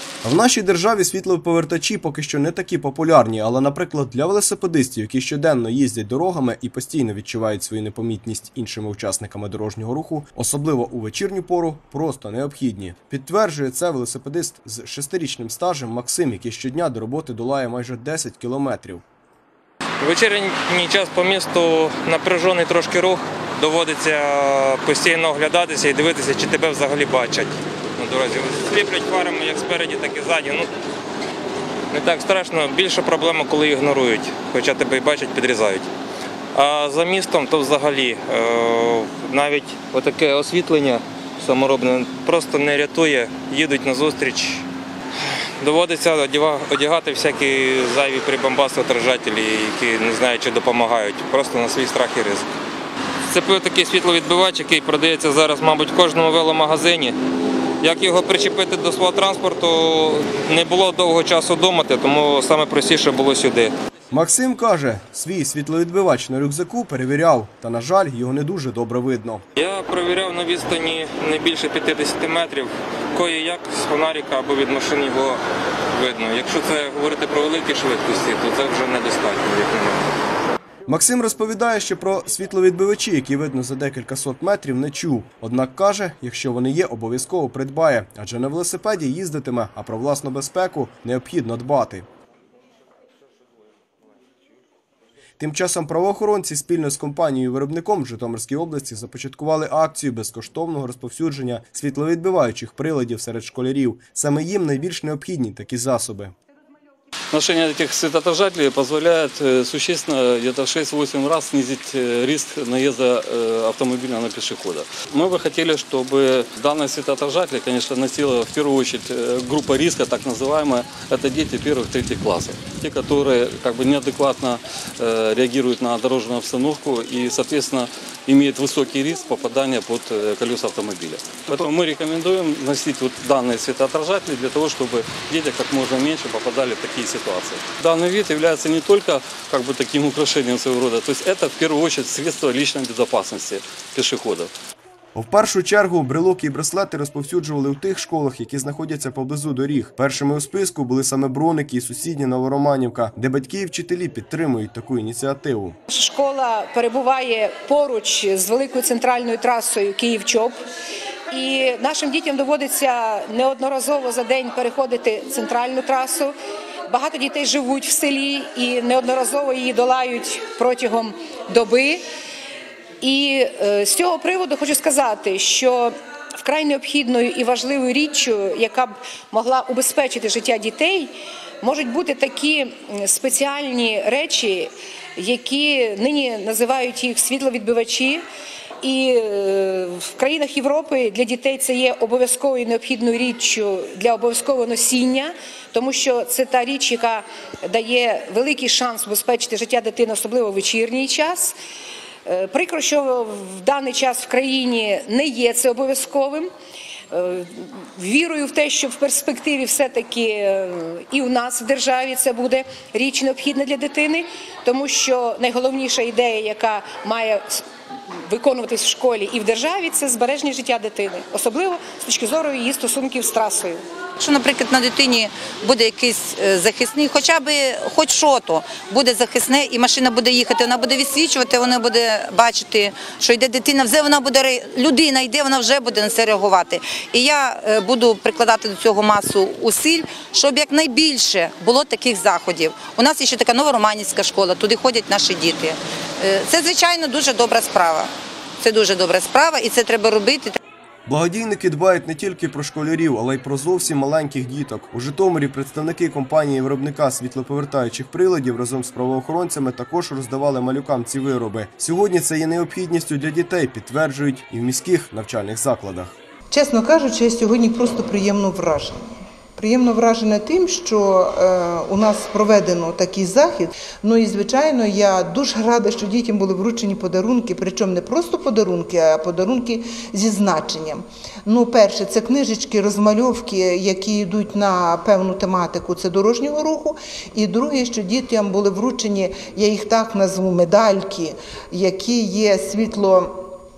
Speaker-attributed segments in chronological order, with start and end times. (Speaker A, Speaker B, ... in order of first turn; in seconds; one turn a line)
Speaker A: 0.2-19.0
Speaker B: 20.0-30.7
Speaker B: 31.9-35.9
Speaker B: 36.5-44.6
Speaker B: 45.2-52.5
Speaker B: 53.3-57.1
Speaker B: 57.8-63.7
Speaker A: 64.1-69.4
Speaker B: 69.5-75.4
Speaker B: 75.9-80.1
Speaker A: 80.9-92.0
Speaker A: 95.4-106.3
Speaker C: 107.3-144.5
Speaker A: 145.1-155.8
Speaker D: 155.9-160.5
Speaker D: 161.3-166.3
Speaker D: 166.9-171.9
Speaker D: 173.0-175.9
Speaker D: 176.4-181.1
Speaker D: 181.6-184.7
Speaker D: 185.2-188.2
Speaker D: 188.8-197.2
Speaker D: 197.7-201.5
Speaker D: 202.3-206.4
Speaker D: 207.1-207.4
Speaker D: 208.0-214.1
Speaker D: 214.7-217.4
Speaker D: 218.3-220.7
Speaker D: 222.4-222.9
Speaker E: 224.2-250.6
Speaker A: 251.1-266.1
Speaker F: 266.5-269.0
Speaker F: 269.6-293.4